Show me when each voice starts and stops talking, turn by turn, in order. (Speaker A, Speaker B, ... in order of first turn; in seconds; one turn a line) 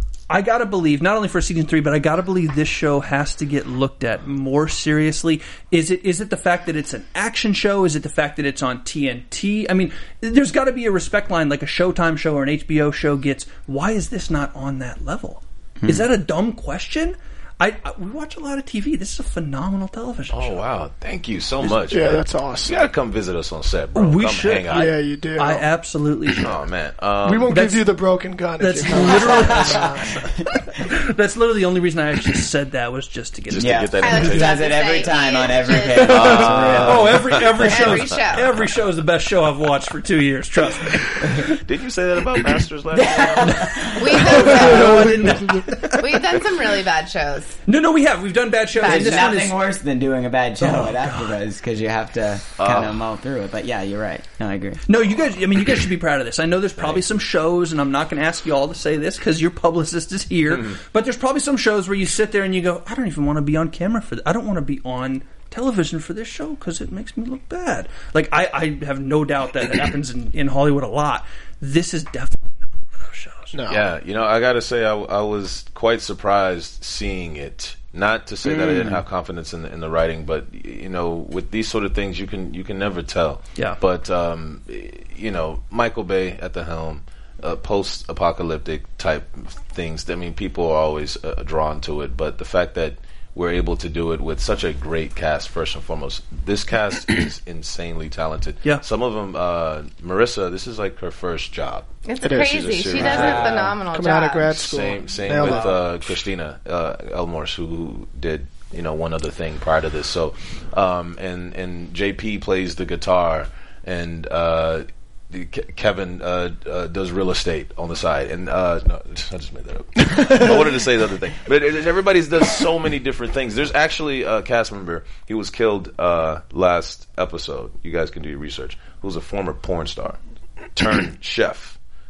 Speaker A: 0.3-20.6
Speaker B: 15.8-16.1
Speaker C: 20.3-24.9
Speaker D: 21.9-22.9
Speaker A: 23.9-26.5
Speaker D: 24.7-25.7
Speaker C: 26.4-27.6
Speaker D: 27.2-30.3
Speaker A: 27.5-27.9
Speaker A: 28.6-29.9
Speaker B: 29.4-29.9
Speaker A: 30.7-33.9
Speaker C: 33.5-34.7
Speaker B: 33.6-37.3
Speaker E: 34.0-36.7
Speaker C: 36.0-38.1
Speaker A: 36.7-41.5
Speaker E: 37.5-38.6
Speaker C: 41.5-44.8
Speaker B: 42.9-44.5
Speaker E: 44.0-45.2
Speaker A: 44.2-46.1
Speaker D: 44.6-45.4
Speaker E: 46.0-47.6
Speaker A: 47.7-49.7
Speaker E: 48.8-49.3
Speaker B: 48.8-54.8
Speaker A: 50.6-51.3
Speaker C: 52.6-53.0
Speaker A: 54.9-73.5
Speaker C: 56.8-57.0
Speaker C: 60.5-60.8
Speaker D: 73.5-73.9
Speaker C: 73.7-103.7
Speaker B: 78.5-79.0
Speaker E: 102.1-104.5
Speaker D: 102.2-105.9
Speaker B: 103.0-103.8
Speaker C: 104.4-130.2
Speaker D: 120.2-120.6
Speaker C: 130.7-131.8